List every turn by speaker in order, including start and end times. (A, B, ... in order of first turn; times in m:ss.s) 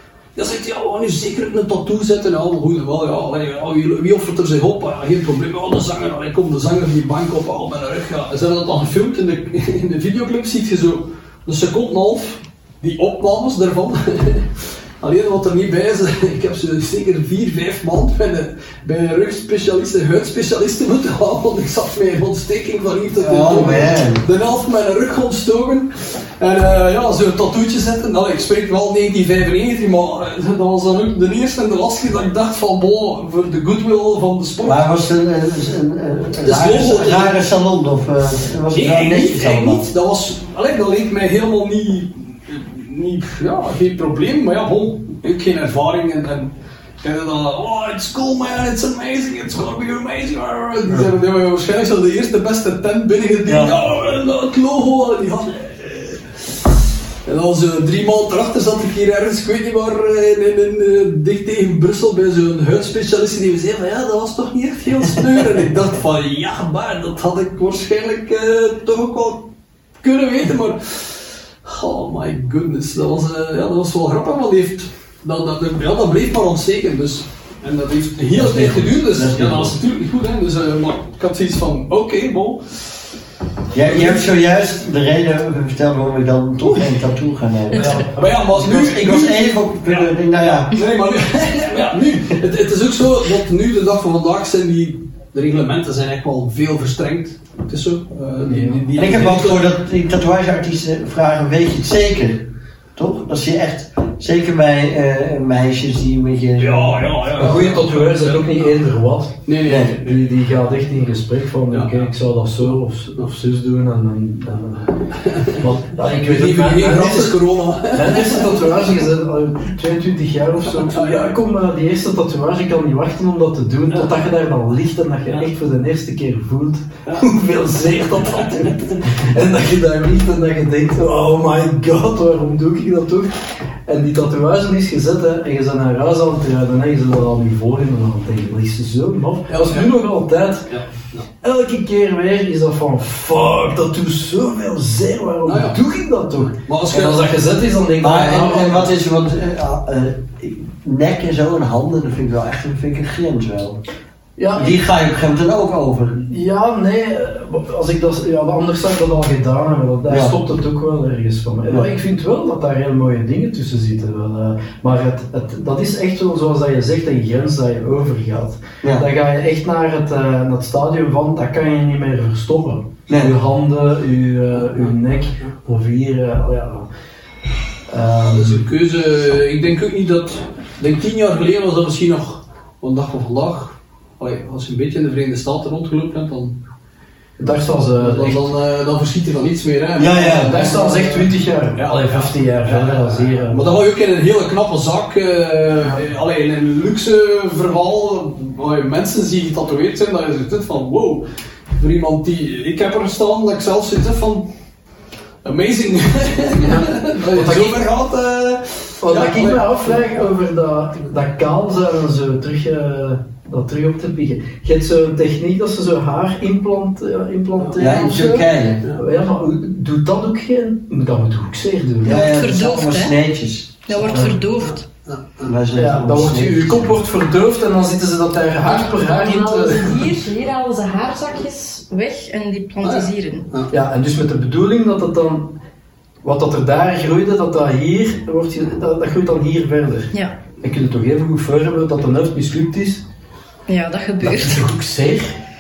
0:00.4-0:34.8 A
0:23.2-0:24.2 B
0:34.6-0:39.9 B
0:36.4-0:37.4 A
0:38.7-0:56.7 A
0:53.5-0:53.8 B
0:57.3-1:09.5 A
1:10.0-1:22.9 A
1:18.3-1:19.8 B
1:23.7-1:30.8 B
1:23.8-1:24.3 A
1:27.8-1:39.7 A
1:27.8-1:28.1 C
1:38.4-1:38.8 C
1:39.0-1:47.1 B
1:46.6-1:48.7 A
1:47.4-2:13.3 C
1:49.5-1:50.2 A
1:49.6-1:49.9 B
1:51.7-1:52.0 A
1:55.2-1:55.6 A
1:56.1-1:58.7 A
2:00.8-2:01.3 A
2:13.9-2:20.7 C
2:19.5-2:19.9 A
2:20.7-2:21.2 A
2:21.4-2:28.9 C
2:25.4-2:25.8 A
2:26.7-2:27.3 A
2:28.0-2:33.8 B
2:34.4-2:34.7 C
2:34.5-2:36.2 B
2:36.3-2:56.9 C
2:40.1-2:40.4 B
2:41.7-2:41.9 B
2:53.1-2:53.3 B
2:57.9-2:58.6 C
2:58.2-3:06.6 A
3:07.4-3:08.5 C
3:08.0-3:21.2 A
3:10.0-3:10.6 B
3:10.4-3:13.7 C
3:21.8-3:24.5 A
3:25.4-3:30.0 A
3:26.6-3:27.8 C
3:29.0-3:42.2 C
3:37.8-3:38.8 B
3:42.0-3:43.2 D
3:42.0-3:44.3 B
3:43.9-3:44.8 D
3:44.0-3:44.4 C
3:44.6-3:45.5 A
3:45.4-3:47.0 B
3:45.7-3:50.1 C
3:48.7-3:53.5 D
3:52.8-3:53.7 A
3:53.7-3:55.6 C
3:56.2-4:03.0 C
4:03.7-4:04.6 D
4:04.2-4:05.4 C